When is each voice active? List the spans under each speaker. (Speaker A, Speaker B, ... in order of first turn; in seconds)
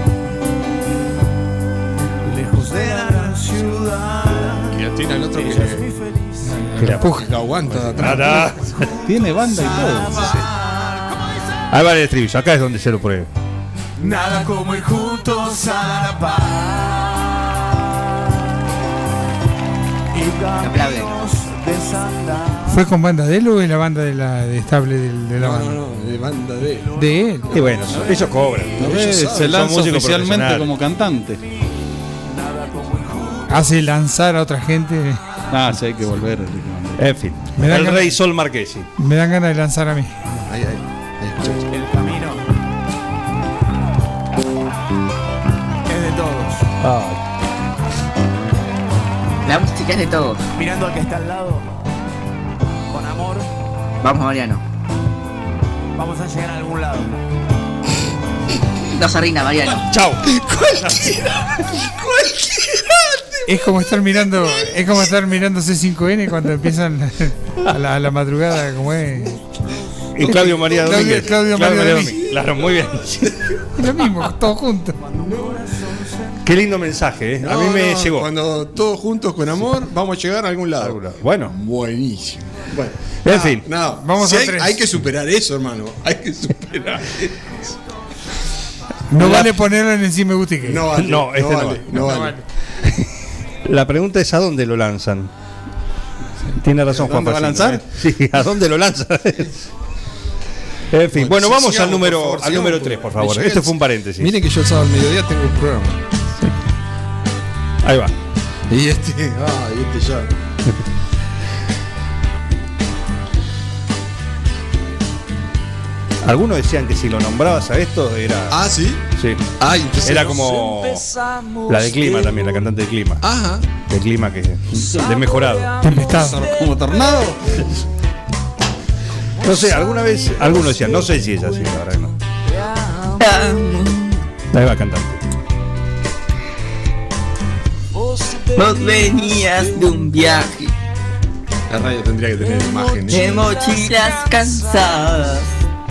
Speaker A: 2.2-4.8, 5.3-6.9, 9.1-11.5, 14.0-17.2, 20.1-22.8, 26.9-28.3, 32.2-33.7, 41.7-42.4, 45.9-46.6, 50.5-51.7, 52.9-53.5, 56.0-57.1, 75.0-76.2
Speaker B: 4.7-5.8, 7.0-8.5, 25.4-26.9, 28.8-29.6, 40.3-41.7, 60.4-63.4, 70.3-70.5, 75.2-75.5, 77.4-87.7, 90.6-92.4, 101.1-106.0, 108.7-110.3, 118.5-119.0, 119.6-120.6, 123.2-123.7, 141.7-143.4
Speaker C: 6.8-7.0, 7.9-8.9, 11.7-13.3, 27.5-30.7, 37.0-38.9, 46.8-47.2, 59.9-60.2, 70.1-73.4, 76.4-78.3, 80.8-81.5, 83.2-83.7, 89.2-89.5, 91.0-92.0, 93.6-95.3, 96.6-99.6, 100.9-104.3, 107.8-108.1, 116.2-118.6, 119.2-119.4, 120.0-121.1, 121.7-123.2, 123.8-125.7, 129.4-132.2, 134.5-135.2
Speaker D: 6.8-7.3, 22.7-25.8, 26.9-27.5, 33.5-35.2, 37.6-38.2, 39.0-40.1, 63.5-69.4, 70.2-72.2, 73.8-75.0, 84.0-84.8, 89.1-90.8, 92.0-92.4, 125.8-126.5
Speaker E: 9.0-10.2, 28.8-31.4, 35.5-37.0, 96.9-97.8, 126.1-127.6
Speaker F: 20.6-21.1, 49.4-50.4, 54.0-54.6, 58.9-59.8, 133.2-134.2, 138.5-140.7, 143.1-145.5